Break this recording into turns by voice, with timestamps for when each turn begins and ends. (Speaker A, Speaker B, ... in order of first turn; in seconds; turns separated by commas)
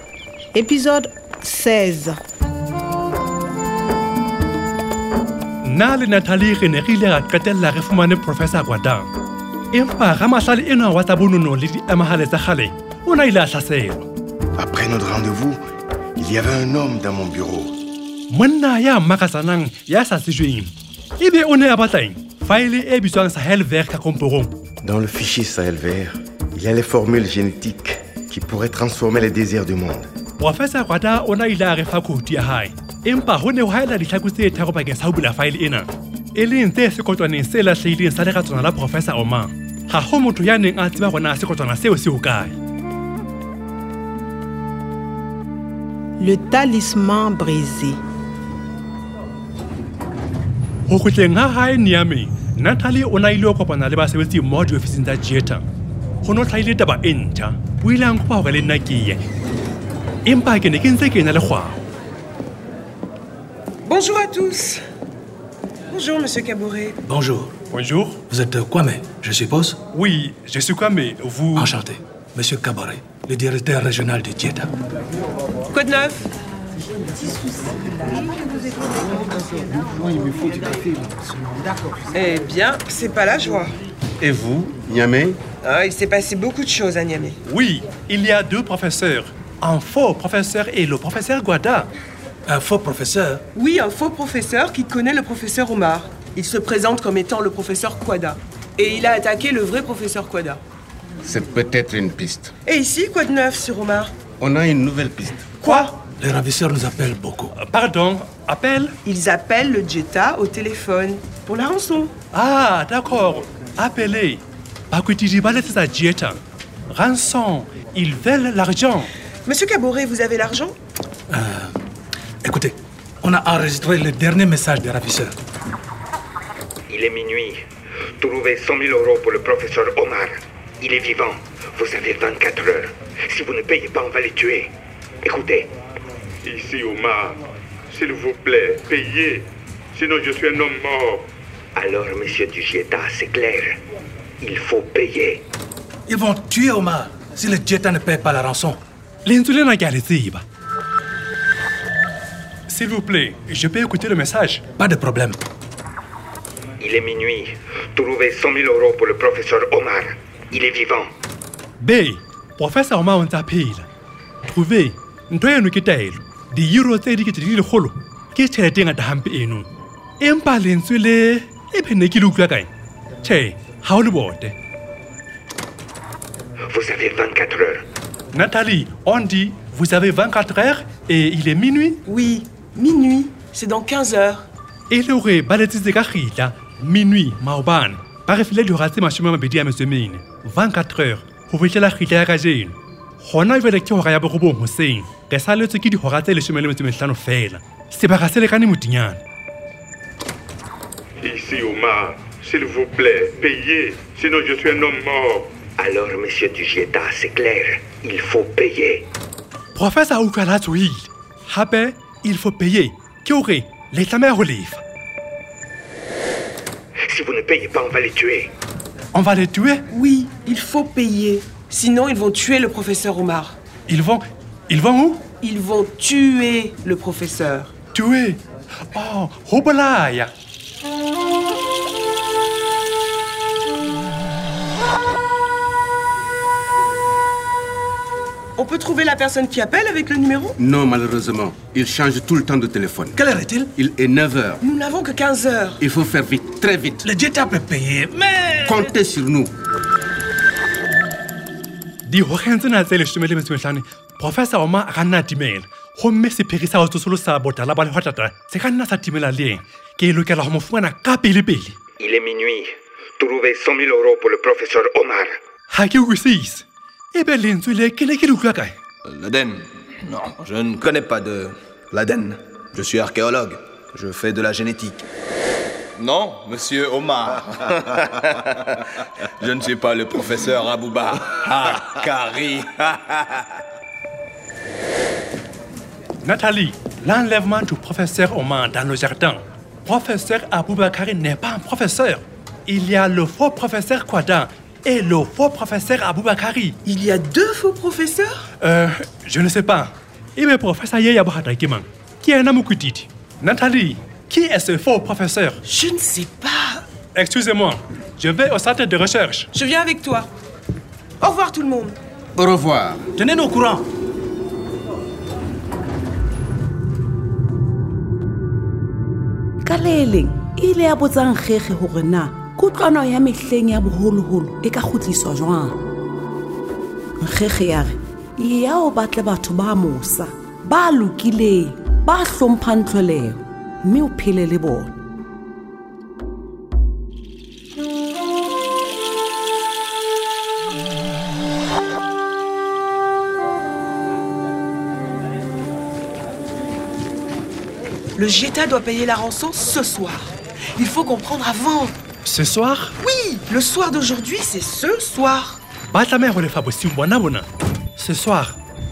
Speaker A: 0.5-2.2, Speaker B: 5.6-9.1, Speaker B: 9.7-14.1, Speaker C: 14.6-15.6, Speaker C: 16.2-17.7, Speaker B: 18.3-24.5, Speaker C: 24.8-30.1, Speaker B: 30.4-42.5, Speaker A: 46.2-48.0, Speaker B: 50.9-55.6, Speaker B: 56.2-59.2, Speaker B: 60.2-61.8, Speaker D: 63.8-64.8, Speaker D: 65.9-67.0, Speaker E: 67.1-67.5, Speaker B: 67.7-68.2, Speaker E: 68.3-69.7, Speaker B: 69.9-71.7, Speaker E: 71.6-74.7, Speaker D: 75.7-76.3, Speaker D: 77.3-77.6, Speaker F: 79.9-81.0, Speaker D: 82.1-83.7, Speaker F: 84.2-85.4, Speaker D: 85.6-87.4, Speaker B: 87.5-91.9, Speaker E: 92.5-93.4, Speaker D: 93.5-100.6, Speaker F: 101.2-102.5, Speaker D: 102.6-104.1, Speaker F: 104.4-105.5, Speaker D: 105.6-105.9, Speaker E: 106.2-107.5, Speaker B: 107.5-108.9, Speaker D: 109.0-112.1, Speaker B: 112.3-116.4, Speaker B: 116.9-119.1, Speaker D: 119.5-120.8, Speaker E: 121.3-121.7, Speaker E: 122.4-125.3, Speaker G: 126.9-127.6, Speaker G: 128.2-134.7, Speaker G: 135.2-135.7, Speaker H: 136.4-141.3, Speaker G: 141.7-143.8, Speaker G: 144.4-145.4, Speaker E: 146.1-148.8, Speaker B: 149.2-150.4, Speaker B: 152.7-154.6, Speaker E: 154.8-155.4, Speaker G: 156.8-161.1, Speaker B: 161.8-163.9, Speaker B: 164.4-169.7, Speaker B: 170.2-172.7, Speaker B: 173.2-174.5, Speaker G: 176.7-177.8, Speaker B: 178.3-182.0, Speaker D: 182.1-184.4, Speaker B: 184.9-199.2, Speaker H: 201.2-205.6, Speaker G: 205.8-209.1, Speaker B: 209.7-214.8, Speaker G: 217.1-218.5, Speaker B: 219.1-219.8, Speaker D: 219.9-223.6, Speaker B: 223.9-225.2, Speaker D: 225.4-227.7, Speaker B: 227.9-230.3, Speaker D: 238.6-240.5, Speaker F: 240.5-243.2, Speaker E: 243.2-243.7, Speaker F: 243.7-244.7, Speaker D: 244.6-245.7, Speaker F: 245.8-247.0, Speaker E: 247.0-248.8, Speaker F: 248.6-249.5, Speaker B: 252.0-261.8, Speaker G: 262.0-265.4, Speaker B: 265.7-268.7, Speaker I: 269.1-275.0, Speaker I: 276.0-278.3, Speaker I: 279.4-283.4, Speaker B: 286.2-296.8, Speaker D: 296.9-298.3, Speaker B: 298.6-305.6, Speaker D: 305.7-306.8, Speaker B: 307.1-309.5, Speaker D: 309.5-310.3, Speaker D: 311.2-311.9, Speaker F: 312.4-313.1, Speaker E: 313.2-313.8, Speaker J: 319.6-325.8, Speaker J: 327.2-334.9, Speaker D: 348.1-351.9, Speaker B: 352.2-352.9, Speaker D: 353.0-355.6, Speaker B: 355.9-358.6